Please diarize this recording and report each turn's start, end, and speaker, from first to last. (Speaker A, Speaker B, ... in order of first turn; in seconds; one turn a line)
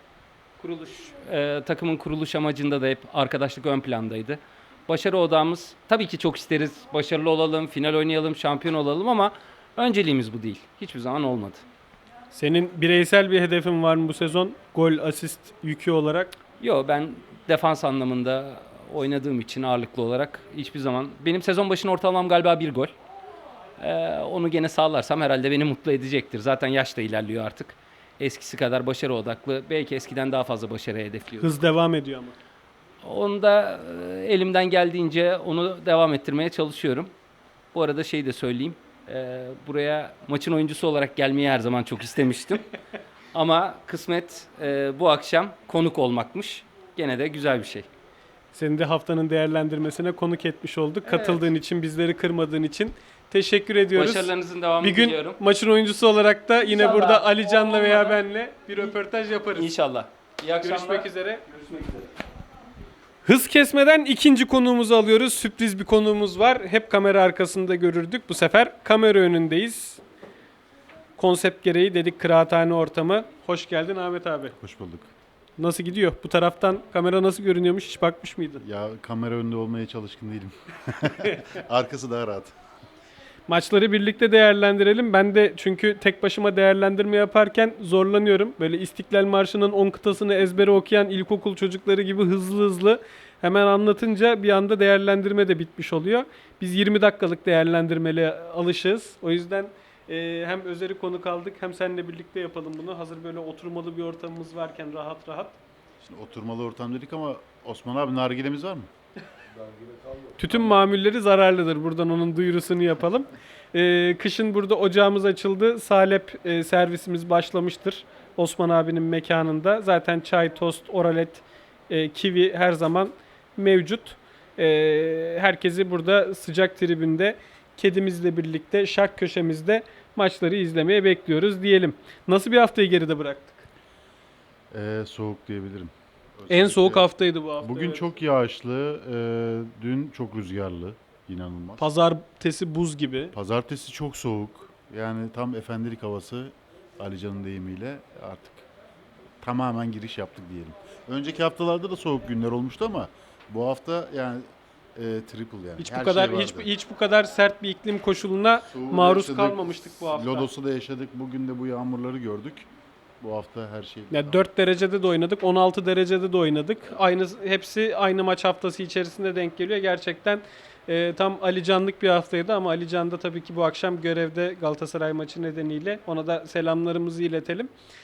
Speaker A: 0.6-11.6
Speaker B: 12.3-16.3
Speaker A: 16.6-22.9
Speaker A: 23.8-31.6
Speaker B: 31.4-32.4
Speaker A: 33.0-37.1
Speaker A: 37.7-42.7
Speaker A: 43.3-47.9
Speaker B: 48.5-59.7
Speaker A: 51.0-51.5
Speaker A: 53.9-55.4
Speaker A: 56.6-58.2
Speaker A: 59.5-62.1
Speaker B: 60.6-61.4
Speaker B: 63.2-70.0
Speaker B: 71.2-74.5
Speaker C: 74.6-75.1
Speaker B: 75.6-78.6
Speaker C: 78.6-82.5
Speaker B: 83.5-105.6
Speaker C: 106.0-108.9
Speaker C: 109.6-110.7
Speaker B: 110.4-133.7
Speaker C: 134.7-137.1
Speaker B: 136.5-138.0
Speaker C: 137.6-141.9
Speaker B: 141.8-143.3
Speaker C: 143.3-148.7
Speaker C: 149.4-154.4
Speaker C: 154.9-156.7
Speaker B: 155.8-160.5
Speaker C: 158.7-162.7
Speaker C: 163.2-164.4
Speaker B: 164.1-177.7